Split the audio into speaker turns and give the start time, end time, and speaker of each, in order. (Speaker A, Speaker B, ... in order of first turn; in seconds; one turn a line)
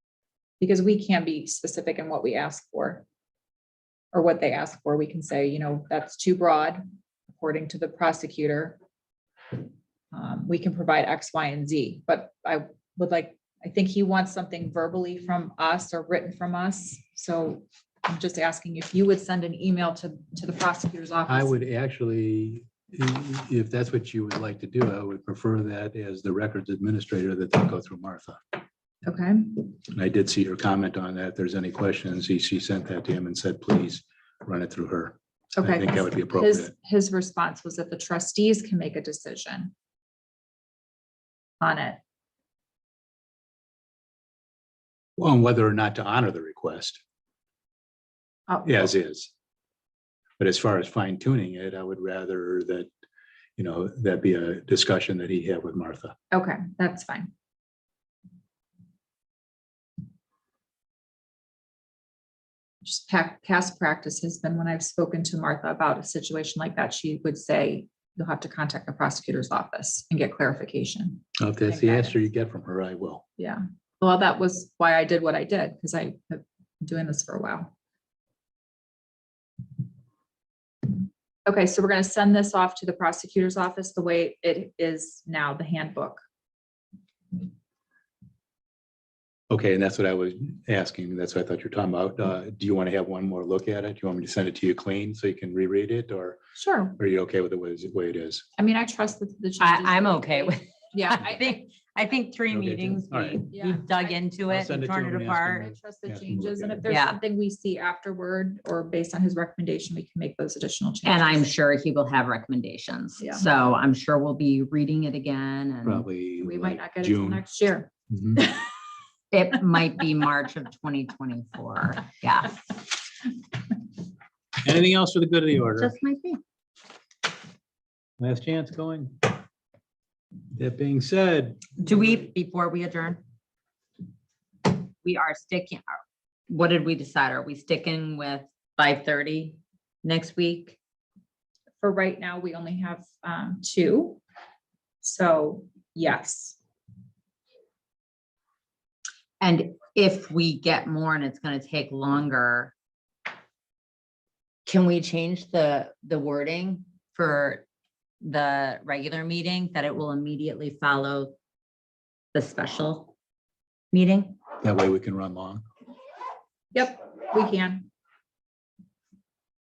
Speaker A: 0.6-3.0
Speaker A: 4.1-8.8
Speaker A: 10.1-21.6
Speaker B: 21.3-28.4
Speaker A: 29.1-29.6
Speaker B: 29.9-36.7
Speaker A: 35.5-39.7
Speaker A: 41.6-42.0
Speaker B: 45.2-47.0
Speaker A: 48.5-48.9
Speaker B: 48.6-49.3
Speaker B: 50.4-52.9
Speaker B: 53.6-56.1
Speaker A: 56.3-57.3
Speaker A: 62.8-72.2
Speaker B: 71.4-73.2
Speaker A: 73.4-77.7
Speaker A: 81.5-86.2
Speaker B: 89.5-96.4
Speaker A: 96.6-97.0
Speaker B: 97.0-98.5
Speaker A: 98.6-101.6
Speaker C: 99.6-105.7
Speaker B: 102.5-103.4
Speaker A: 103.5-104.2
Speaker B: 104.5-106.9
Speaker A: 105.6-111.5
Speaker C: 106.8-107.2
Speaker C: 111.0-116.0
Speaker A: 113.2-113.5
Speaker B: 115.8-117.4
Speaker A: 116.4-117.9
Speaker B: 118.1-118.4
Speaker C: 119.3-122.7
Speaker B: 124.6-125.9
Speaker C: 125.8-126.4
Speaker B: 128.2-129.3
Speaker B: 130.6-131.8
Speaker C: 131.8-133.2
Speaker C: 135.0-140.8
Speaker A: 141.8-144.2
Speaker A: 145.0-146.6
Speaker C: 149.4-152.7
Speaker C: 154.7-157.6
Speaker C: 158.2-161.3
Speaker C: 162.3-163.1
Speaker C: 163.9-164.4
Speaker B: 164.6-165.6
Speaker A: 166.7-167.9